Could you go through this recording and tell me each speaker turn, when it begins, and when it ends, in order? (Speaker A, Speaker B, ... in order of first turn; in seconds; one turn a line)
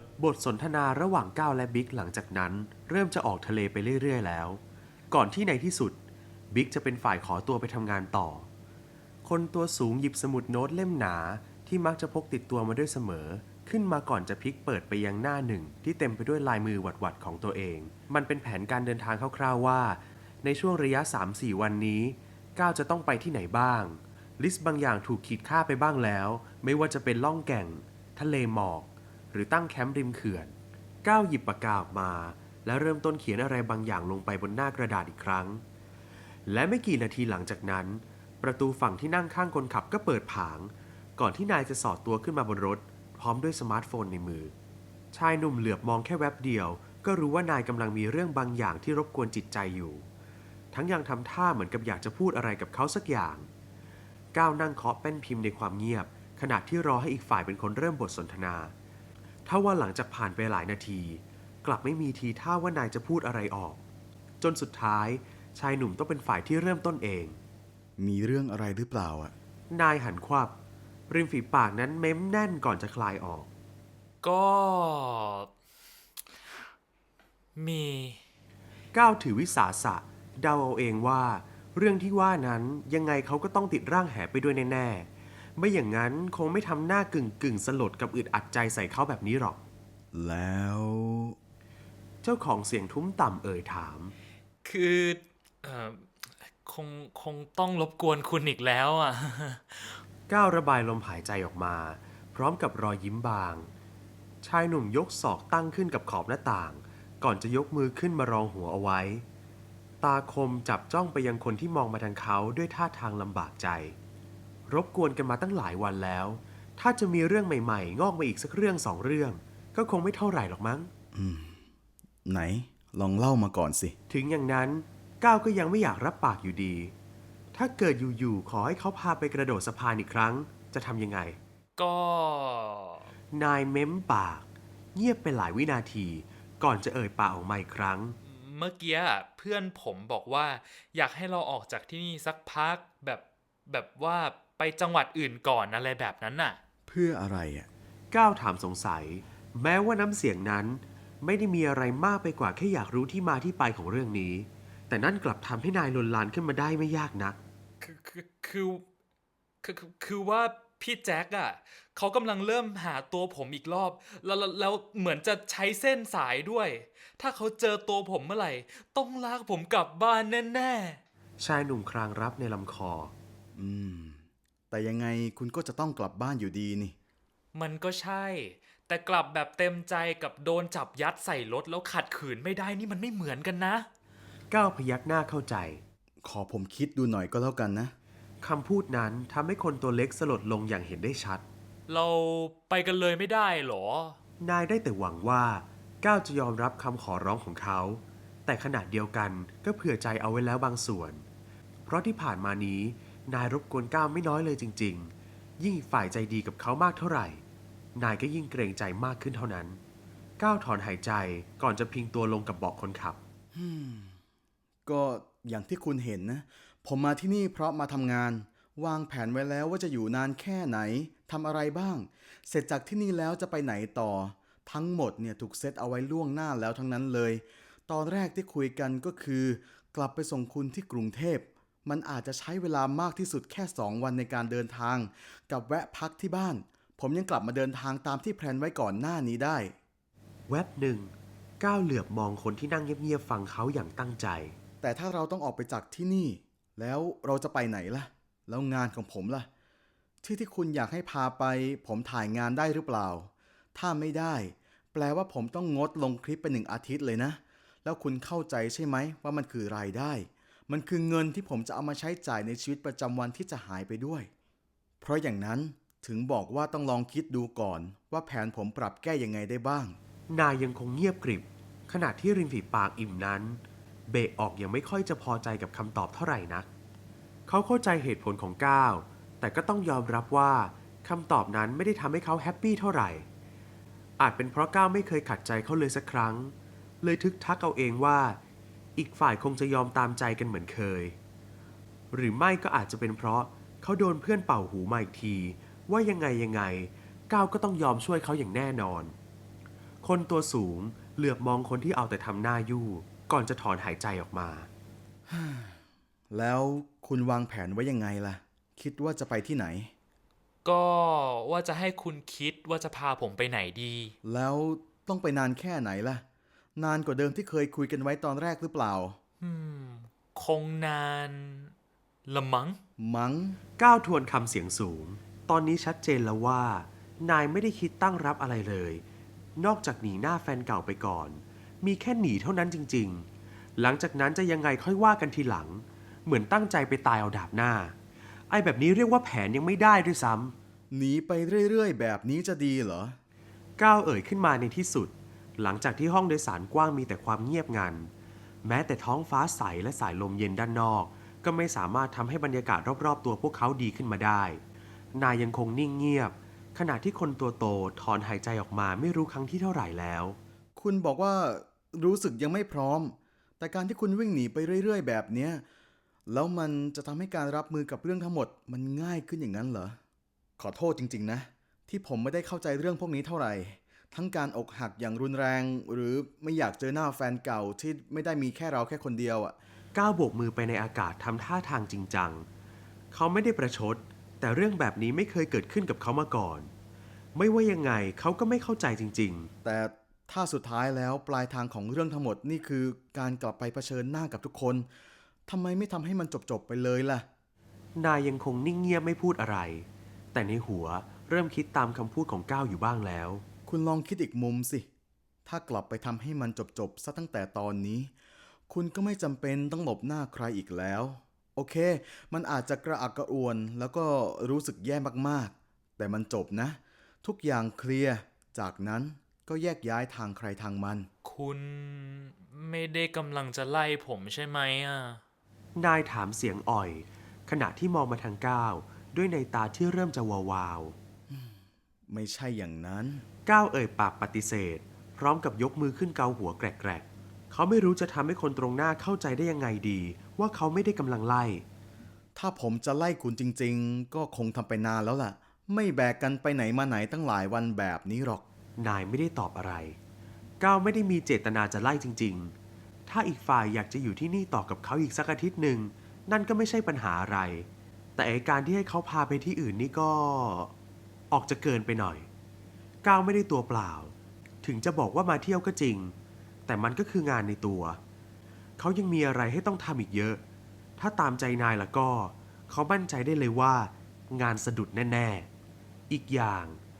Speaker A: 0.2-6.0
Speaker A: 6.5-8.5
Speaker A: 9.2-35.6
Speaker A: 36.5-44.5
Speaker A: 45.1-50.1
Speaker A: 50.7-53.5
Speaker A: 54.3-58.7
Speaker A: 59.5-63.8
Speaker A: 64.4-67.4
Speaker B: 68.0-69.3
Speaker A: 69.7-70.5
Speaker A: 71.1-73.5
Speaker C: 74.2-75.5
Speaker C: 77.5-78.2
Speaker A: 78.9-89.6
Speaker B: 90.1-91.3
Speaker A: 92.2-94.1
Speaker C: 94.6-100.0
Speaker A: 100.3-103.7
Speaker A: 104.4-109.2
Speaker A: 110.0-114.0
Speaker A: 114.7-120.9
Speaker B: 121.1-121.6
Speaker B: 122.2-124.0
Speaker A: 124.1-126.9
Speaker A: 127.5-131.4
Speaker C: 131.8-133.1
Speaker A: 133.3-138.2
Speaker C: 138.2-146.6
Speaker B: 146.9-147.7
Speaker A: 148.1-157.4
Speaker C: 157.8-158.8
Speaker C: 159.6-171.0
Speaker A: 171.4-173.1
Speaker B: 173.6-176.9
Speaker C: 177.5-183.9
Speaker A: 184.5-185.8
Speaker B: 186.2-187.9
Speaker A: 188.4-191.4
Speaker C: 191.9-194.2
Speaker A: 194.4-201.2
Speaker A: 201.9-207.4
Speaker A: 207.9-209.8
Speaker A: 210.4-213.2
Speaker B: 213.5-214.2
Speaker B: 214.8-239.7
Speaker A: 240.5-244.6
Speaker B: 244.8-249.5
Speaker B: 250.2-264.3
Speaker B: 265.0-269.9
Speaker A: 270.3-276.7
Speaker A: 277.5-283.3
Speaker A: 284.2-288.4
Speaker A: 288.9-291.2
Speaker A: 292.1-299.1
Speaker A: 300.0-304.7
Speaker B: 305.3-305.8
Speaker B: 306.3-309.9
Speaker C: 310.6-314.1
Speaker B: 314.2-316.2
Speaker B: 316.8-319.2
Speaker C: 319.4-321.7
Speaker C: 322.3-322.8
Speaker B: 323.0-323.6
Speaker A: 323.8-329.0
Speaker A: 329.6-337.9
Speaker A: 338.5-340.5
Speaker B: 340.9-343.2
Speaker A: 343.8-348.1
Speaker A: 348.6-354.6
Speaker A: 355.1-360.4
Speaker B: 360.8-365.6
Speaker B: 366.3-370.0
Speaker B: 370.6-379.6
Speaker A: 379.9-382.5
Speaker A: 383.1-386.7
Speaker A: 387.3-389.5
Speaker B: 389.6-394.9
Speaker B: 395.5-397.2
Speaker A: 397.9-403.4
Speaker B: 403.7-404.9
Speaker B: 405.4-408.1
Speaker B: 408.7-421.1
Speaker C: 421.2-425.2
Speaker A: 425.8-430.9
Speaker B: 431.3-431.6
Speaker B: 432.1-433.2
Speaker A: 433.4-441.6
Speaker B: 442.4-448.4
Speaker A: 448.8-450.0
Speaker A: 450.6-452.5
Speaker A: 453.1-460.7
Speaker A: 461.3-462.3
Speaker A: 463.0-466.1
Speaker A: 466.7-468.0
Speaker A: 468.8-470.4
Speaker A: 471.0-475.5
Speaker A: 476.1-476.8